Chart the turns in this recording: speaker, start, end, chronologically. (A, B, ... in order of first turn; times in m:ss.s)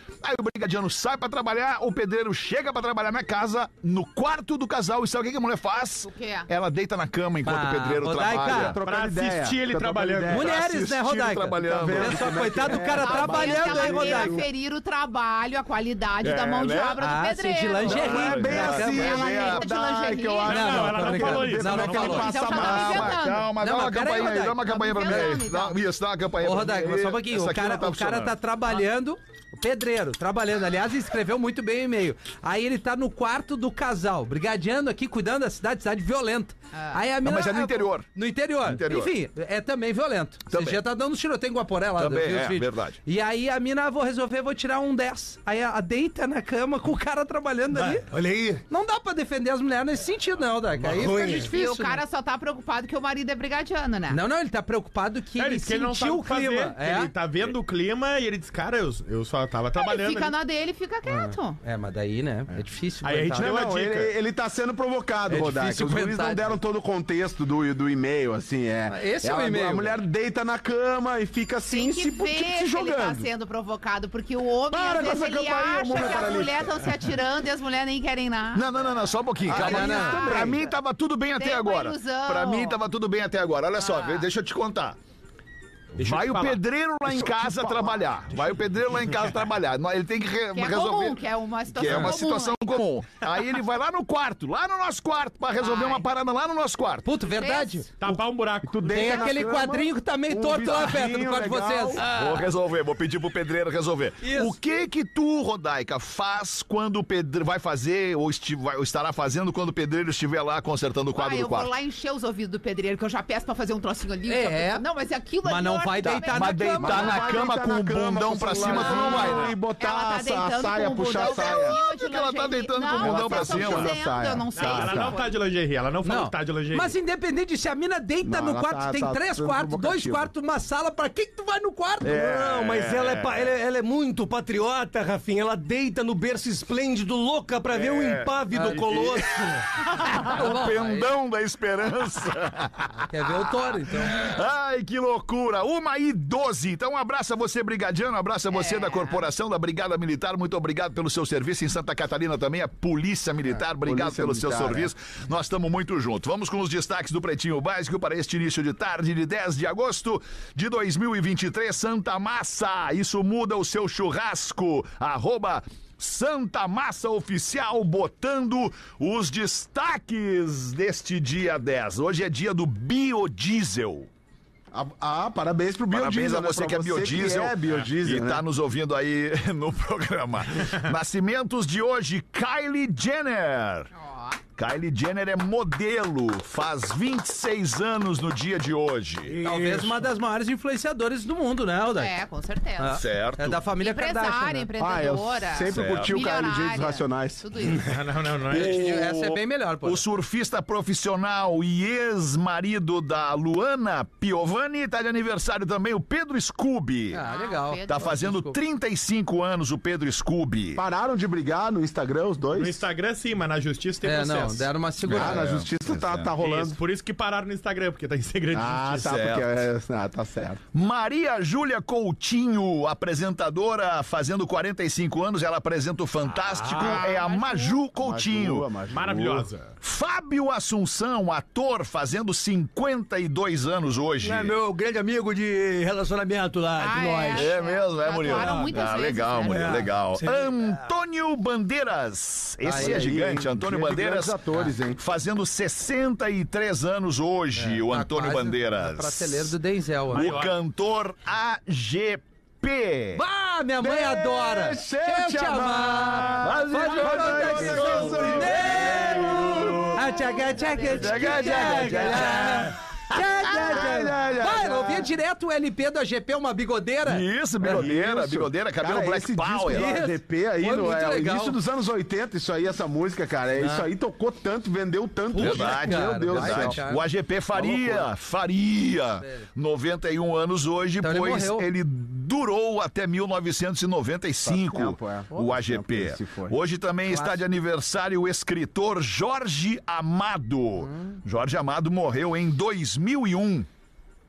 0:00.2-0:08.8 A
0:06.0-0:06.5 B
0:07.4-0:08.8 C
0:08.4-0:10.5 D
0:08.8-0:10.5 E
0:10.3-0:14.4 C
0:10.4-0:12.3 A
0:11.6-0:14.4 D
0:13.0-0:20.7 B
0:16.2-0:17.0 A
0:17.0-0:19.2 C
0:17.8-0:19.6 A
0:17.9-0:23.2 D
0:20.4-0:22.2 E
0:20.5-0:22.5 C
0:21.6-0:23.5 B
0:22.4-0:28.3 A
0:23.6-0:25.4 C
0:24.4-0:25.8 B
0:26.4-0:48.1 C
0:36.7-0:37.0 B
0:37.2-0:38.1 A
0:38.6-0:39.1 A
0:40.5-0:40.8 A
0:42.0-0:43.0 A
0:47.7-0:48.6 F
0:48.7-0:52.0 C
0:50.8-0:51.9 F
0:51.2-0:54.2 B
0:54.1-0:57.1 C
0:55.4-1:00.3 E
0:59.8-1:01.6 B
1:01.0-1:03.6 C
1:03.0-1:04.1 E
1:03.4-1:13.3 D
1:05.3-1:06.6 C
1:08.9-1:10.0 C
1:11.7-1:18.7 B
1:14.7-1:16.9 D
1:18.5-1:25.0 A
1:19.4-1:20.6 D
1:19.5-1:20.6 B
1:19.5-1:20.2 C
1:21.4-1:22.8 B
1:23.8-1:24.3 B
1:26.0-1:26.6 E
1:26.0-1:31.2 A
1:27.1-1:28.2 D
1:30.5-1:32.8 B
1:31.7-1:37.1 A
1:35.6-1:36.0 B
1:37.0-1:37.9 C
1:37.3-1:37.9 B
1:38.0-1:39.2 E
1:38.6-1:42.0 D
1:38.9-1:42.5 C
1:42.0-1:51.7 A
1:44.2-1:44.6 C
1:51.1-1:57.3 B
1:54.3-1:54.8 C
1:55.4-1:57.2 C
1:56.0-1:59.5 A
1:56.8-2:01.8 D
1:58.6-2:05.3 B
2:01.1-2:04.0 A
2:03.0-2:05.2 D
2:04.5-2:07.0 E
2:06.0-2:12.1 C
2:08.2-2:10.3 D
2:12.0-2:19.7 F
2:12.0-2:13.3 A
2:17.7-2:22.9 A
2:20.2-2:21.1 C
2:22.9-2:24.4 C
2:23.4-2:54.1 A
2:28.5-2:29.2 B
2:33.8-2:34.9 D
2:54.7-2:58.4 D
2:55.9-3:03.9 A
3:03.9-3:04.4 B
3:04.6-3:09.4 A
3:09.2-3:10.1 F
3:09.4-3:12.1 C
3:11.9-3:13.0 B
3:12.8-3:14.7 C
3:13.0-3:13.6 A
3:13.8-3:17.9 B
3:14.8-3:17.4 D
3:15.7-3:16.1 A
3:17.8-3:18.9 E
3:18.5-3:20.0 C
3:18.5-3:27.2 A
3:27.1-3:28.6 C
3:27.2-3:28.2 B
3:27.8-3:30.8 A
3:30.8-3:32.8 D
3:32.5-3:34.7 E
3:34.0-3:35.5 C
3:35.0-3:36.3 A
3:35.1-3:36.8 D
3:36.4-3:39.1 E
3:38.5-3:40.6 D
3:39.0-3:39.6 A
3:40.7-3:48.7 A
3:46.5-3:47.0 F
3:46.7-3:47.8 B
3:48.0-3:49.5 D
3:48.9-3:49.7 E
3:49.8-3:54.5 A
3:54.2-3:57.5 F
3:56.8-3:59.9 B
3:57.3-4:04.4 A
3:58.2-3:58.8 F
3:59.4-4:00.9 F
4:02.6-4:03.0 C
4:02.7-4:05.0 D
4:04.9-4:09.5 A
4:07.6-4:10.4 C
4:10.1-4:13.2 A
4:10.1-4:10.6 E
4:13.1-4:19.4 C
4:13.8-4:20.1 D
4:16.4-4:20.0 A
4:19.9-4:27.2 C
4:20.7-4:22.1 B
4:20.8-4:22.7 A
4:21.5-4:22.3 D
4:23.4-4:25.1 D
4:27.0-4:29.8 A
4:27.6-4:36.8 D
4:29.7-4:31.6 C
4:33.6-4:33.9 C
4:35.3-4:37.0 C
4:35.4-4:53.7 A
4:37.5-4:38.1 D
4:39.2-4:39.4 C
4:41.0-4:41.7 C
4:44.4-4:46.6 D
4:47.0-4:47.4 C
4:50.8-4:51.2 C